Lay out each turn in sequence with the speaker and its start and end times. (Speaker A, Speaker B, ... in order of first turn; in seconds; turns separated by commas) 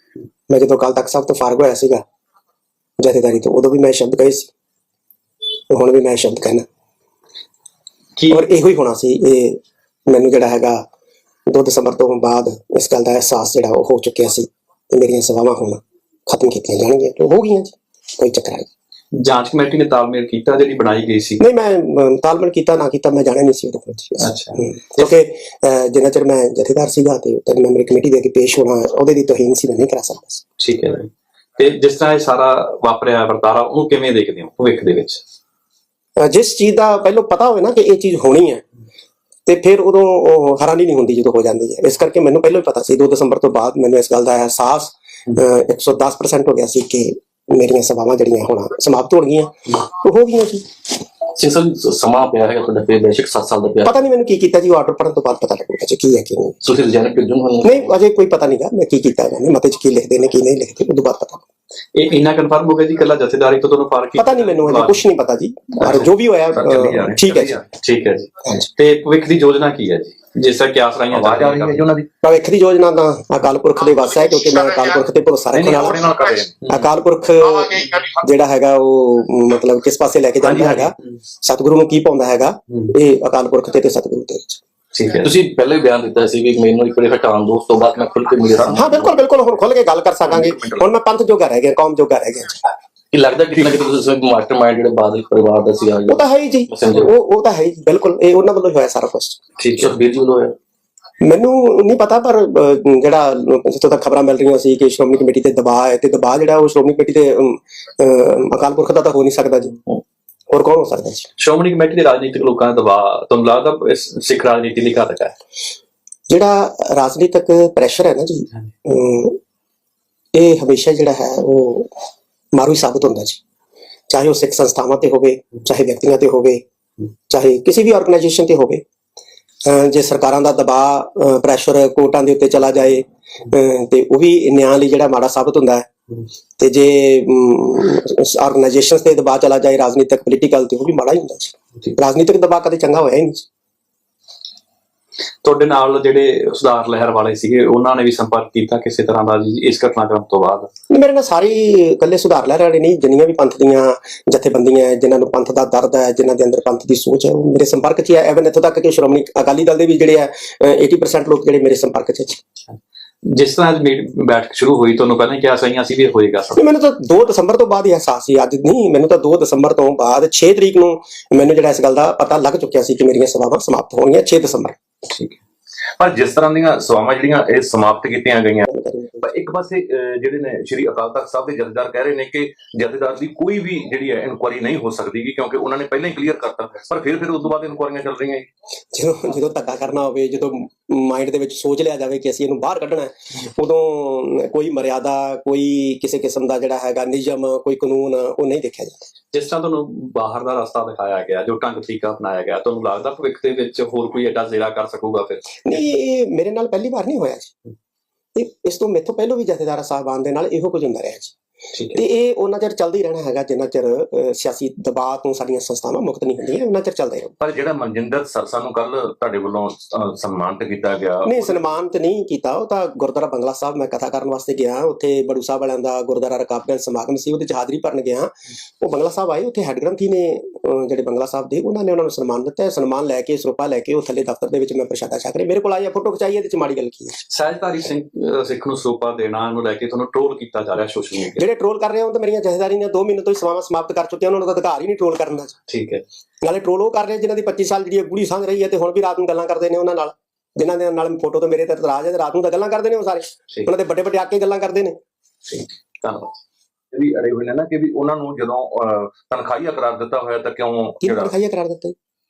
Speaker A: 0.5-2.0, Speaker A: 3.0-4.5, Speaker A: 5.7-6.7, Speaker B: 8.2-8.4, Speaker A: 8.3-10.9, Speaker A: 11.5-18.7, Speaker B: 19.2-21.4, Speaker A: 21.4-30.4, Speaker B: 24.2-25.1, Speaker B: 30.6-35.2, Speaker A: 36.2-38.6, Speaker A: 39.5-50.7, Speaker C: 51.4-54.0, Speaker A: 53.9-56.6, Speaker C: 56.6-58.0, Speaker A: 57.6-61.5, Speaker B: 62.0-65.0, Speaker A: 64.2-67.6, Speaker B: 65.8-66.1, Speaker D: 66.5-67.7, Speaker B: 67.7-71.9, Speaker D: 71.1-72.1, Speaker A: 72.2-76.1, Speaker D: 75.5-76.5, Speaker A: 76.7-84.6, Speaker D: 80.4-80.9, Speaker B: 84.9-85.3, Speaker C: 85.2-89.2, Speaker A: 88.7-92.6, Speaker D: 90.3-90.9, Speaker C: 93.1-97.1, Speaker A: 96.1-99.4, Speaker B: 99.6-99.9, Speaker C: 99.8-100.5, Speaker A: 101.2-109.8, Speaker A: 110.5-111.3, Speaker B: 111.4-115.3, Speaker A: 116.3-119.4, Speaker A: 120.3-121.9, Speaker A: 122.5-123.4, Speaker A: 124.1-126.6, Speaker A: 127.3-128.8, Speaker A: 129.7-135.9, Speaker A: 136.6-143.5, Speaker B: 145.4-150.7, Speaker A: 150.9-162.4, Speaker B: 163.3-166.6, Speaker A: 166.6-174.8, Speaker B: 175.1-175.4, Speaker D: 176.0-178.7, Speaker A: 178.7-179.3, Speaker D: 179.2-188.5, Speaker A: 188.9-199.1, Speaker B: 199.3-205.8, Speaker A: 205.6-207.6, Speaker A: 208.4-211.3, Speaker B: 211.7-212.0, Speaker A: 211.9-217.3, Speaker D: 217.4-221.6, Speaker A: 221.2-237.2, Speaker B: 237.3-241.4, Speaker A: 241.4-245.6, Speaker B: 245.7-246.0, Speaker A: 246.4-255.0, Speaker B: 255.5-256.4, Speaker D: 256.9-261.4, Speaker A: 261.0-261.9